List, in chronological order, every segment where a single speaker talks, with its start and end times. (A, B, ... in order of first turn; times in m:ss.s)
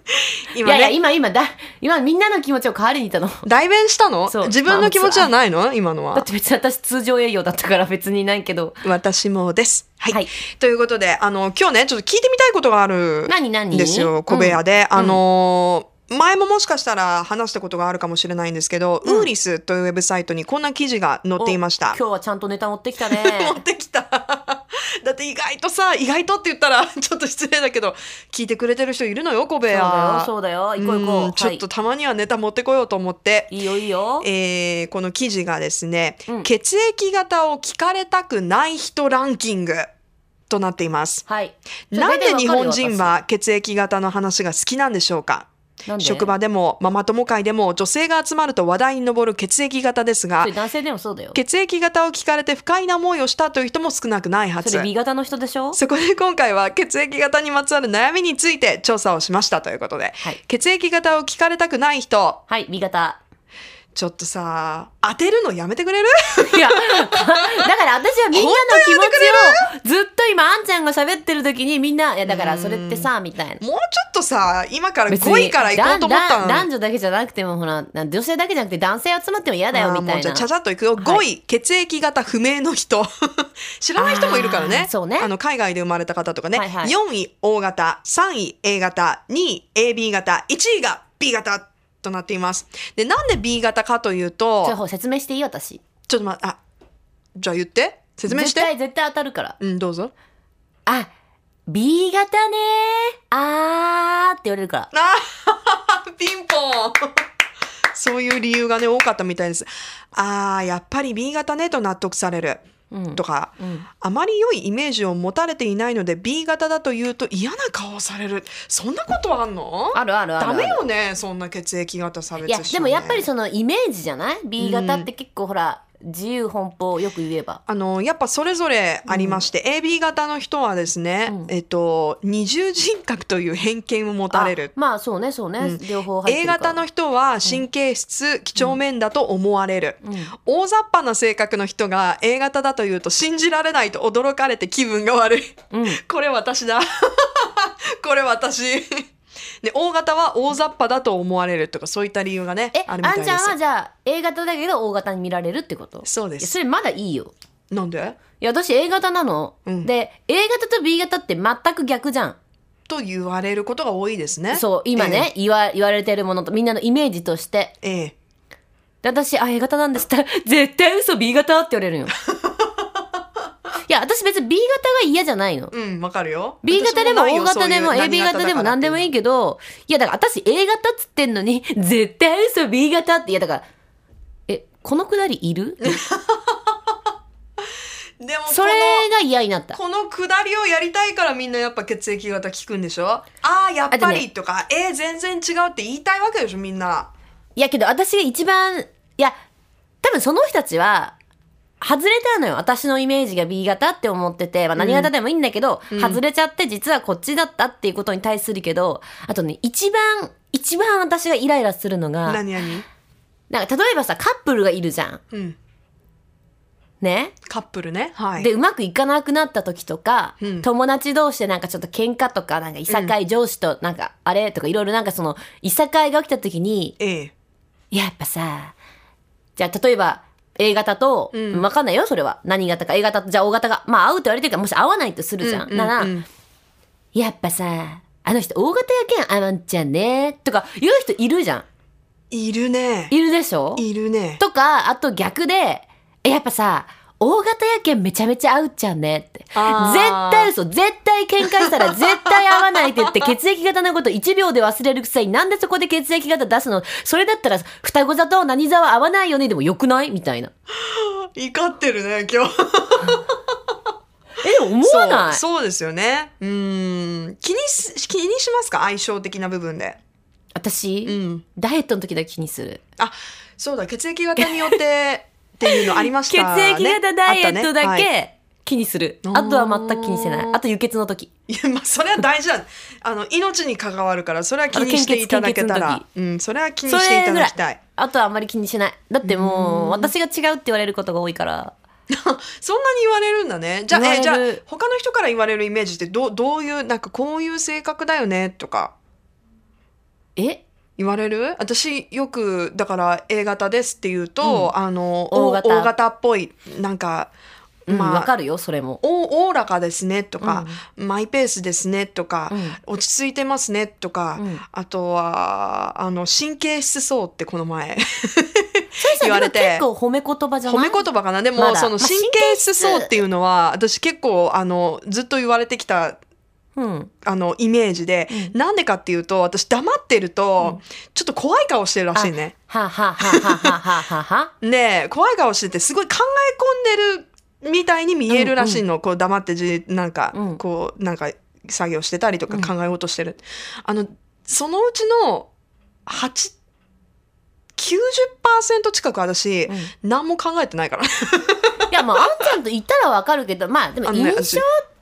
0:00.5-0:01.0 A
0:00.6-0:03.4 B
0:03.4-0:06.3 A
0:04.3-0:05.3 B
0:06.1-0:08.8 B
0:08.8-0:22.0 A
0:13.3-0:15.2 B
0:19.0-0:19.3 B
0:21.4-0:23.6 B
0:23.0-0:33.5 A
0:29.7-0:31.6 B
0:33.5-0:34.3 B
0:34.2-0:39.9 A
0:40.5-0:41.2 A
0:41.3-0:43.1 B
0:41.9-0:45.5 A
0:45.8-0:46.3 B
0:46.0-0:50.5 A
0:50.4-0:51.4 B
0:51.3-0:54.9 A
0:54.6-0:55.8 B
0:55.7-1:02.4 A
1:02.5-1:03.2 B
1:03.9-1:07.5 A
1:06.5-1:13.6 B
1:08.3-1:09.6 A
1:12.2-1:16.7 A
1:15.1-1:20.5 B
1:19.7-1:34.8 A
1:21.0-1:21.2 B
1:24.0-1:25.3 B
1:26.5-1:26.9 B
1:34.6-1:35.8 B
1:36.1-1:36.6 A
1:37.4-1:38.7 A
1:38.3-1:39.6 B
1:39.6-1:40.1 A
1:41.7-1:44.9 B
1:44.9-1:47.1 A
1:47.9-1:52.6 A
1:52.9-1:53.8 B
1:53.1-2:03.3 A
1:59.9-2:00.8 B
2:02.4-2:07.6 B
2:04.6-2:05.1 A
2:07.7-2:14.7 A
2:09.1-2:09.4 B
2:14.3-2:16.8 B
2:15.6-2:29.0 A
2:20.0-2:20.3 B
2:25.7-2:26.0 B
2:29.6-2:33.6 A
2:32.7-2:37.3 B
2:36.0-2:36.6 A
2:37.7-2:38.2 A
2:38.4-2:42.4 B
2:42.9-2:45.3 A
2:44.5-2:47.7 B
2:47.8-2:48.1 A
2:49.0-2:52.1 B
2:52.3-2:52.8 A
2:53.9-2:55.7 B
2:55.7-2:59.1 A
2:56.6-3:03.6 B
3:04.5-3:05.9 B
3:05.8-3:06.7 A
3:08.2-3:09.1 A
3:08.5-3:09.8 B
3:09.7-3:17.1 A
3:13.9-3:14.2 B
3:17.6-3:19.3 B
3:20.0-3:21.1 B
3:21.8-3:32.4 B
3:24.8-3:25.1 A
3:25.9-3:26.2 A
3:32.2-3:32.8 A
3:33.5-3:35.2 B
3:37.0-3:37.4 B
3:37.5-3:38.5 A
3:38.4-3:47.0 B
3:40.4-3:40.7 A
3:42.9-3:43.2 A
3:47.0-3:47.3 A
3:47.9-3:48.8 B
3:49.6-3:56.1 B
3:51.3-3:51.7 A
3:55.4-3:56.2 A
3:57.1-4:01.6 B
4:02.3-4:03.1 A
4:03.1-4:03.8 B
4:03.8-4:04.4 A
4:04.4-4:20.5 B
4:09.5-4:10.5 A
4:11.5-4:13.3 A
4:20.8-4:23.4 A
4:24.4-4:25.4 B
4:24.8-4:30.0 A
4:30.5-4:32.8 B
4:31.0-4:31.4 A
4:33.0-4:38.1 A
4:34.4-4:34.8 B
4:35.6-4:41.3 B
4:39.2-4:40.6 A
4:41.5-4:47.8 A
4:44.7-4:46.0 B
4:46.8-4:51.7 B
4:49.2-4:50.1 A
4:52.1-4:58.9 A
4:53.9-4:54.6 B
5:00.4-5:00.6 B
5:01.0-5:07.3 A
5:04.4-5:04.7 B
5:05.3-5:05.9 B
5:07.9-5:09.0 B
5:07.9-5:08.3 A
5:09.0-5:19.8 A
5:10.4-5:10.8 B
5:12.5-5:12.8 B
5:14.4-5:14.6 B
5:19.0-5:23.2 B
5:20.7-5:26.2 A
5:26.8-5:27.1 B
5:27.2-5:32.5 A
5:32.1-5:34.5 B
5:33.2-5:33.7 A
5:34.6-5:45.5 A
5:38.3-5:38.8 B
5:40.3-5:40.6 B
5:46.1-5:46.5 A
5:47.8-5:52.6 A
5:51.9-5:54.8 B
5:54.0-5:54.6 A